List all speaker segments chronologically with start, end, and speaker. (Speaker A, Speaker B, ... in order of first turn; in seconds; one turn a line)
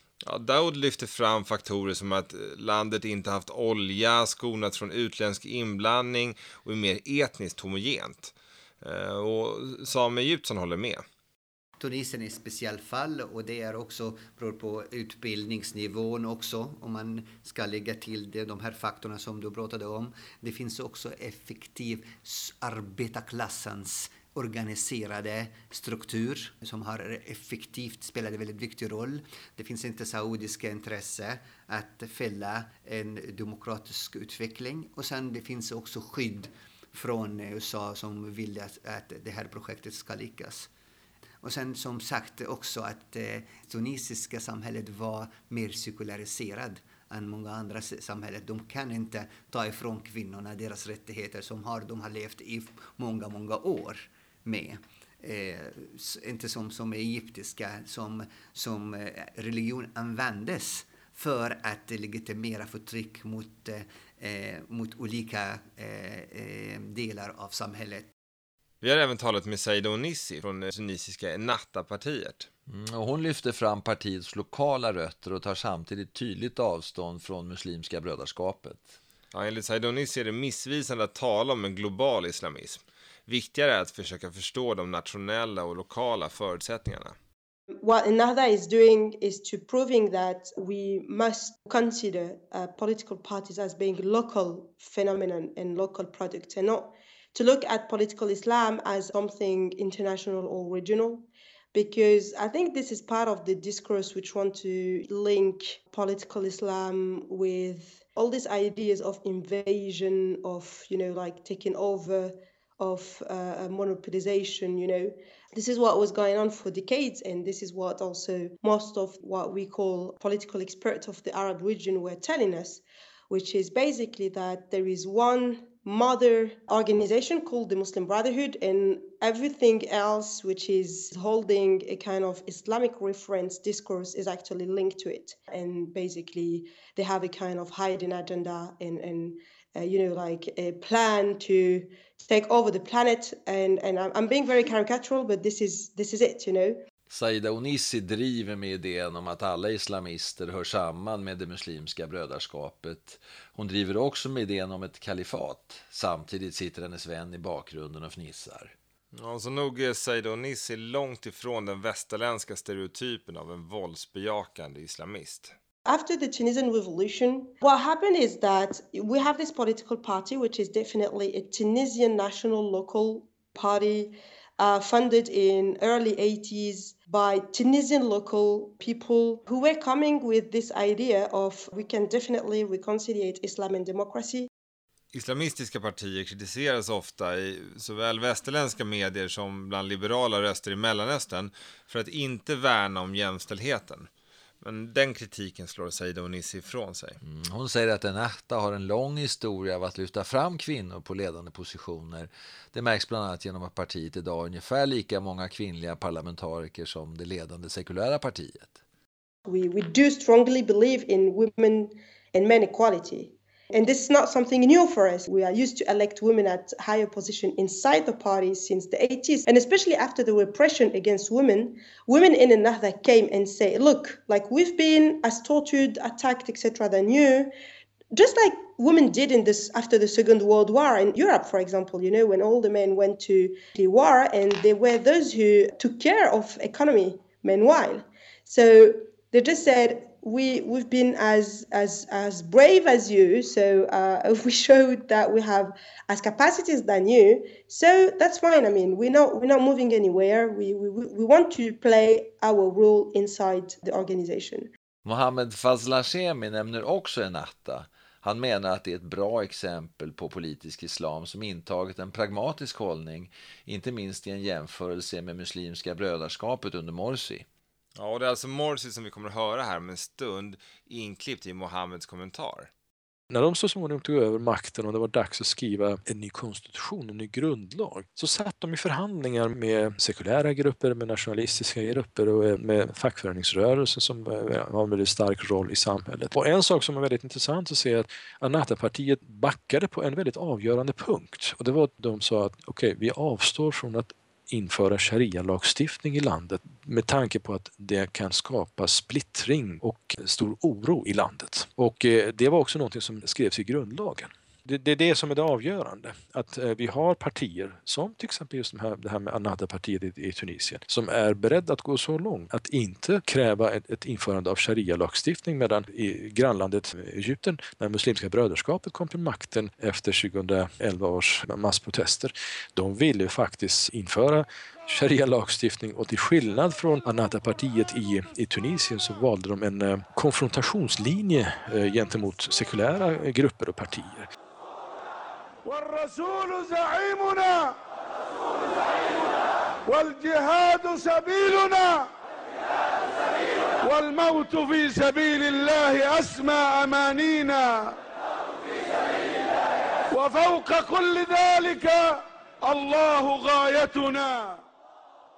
Speaker A: 0.2-11.0
Speaker B: 11.8-40.7
Speaker B: 41.4-68.1
Speaker A: 68.8-72.5
Speaker C: 72.7-79.0
Speaker A: 79.3-87.2
Speaker D: 87.8-146.8
Speaker C: 147.1-158.7
Speaker A: 159.1-165.6
Speaker D: 165.8-184.5
Speaker A: 185.1-194.1
Speaker A: 194.6-197.2
Speaker C: 197.2-208.8
Speaker D: 209.4-227.5
Speaker D: 228.1-254.7
Speaker C: 255.1-267.4
Speaker A: 268.0-272.7
Speaker E: 273.3-334.3
Speaker F: 335.6-337.8
Speaker F: 339.9-342.1
Speaker F: 343.8-348.0
Speaker F: 350.1-354.6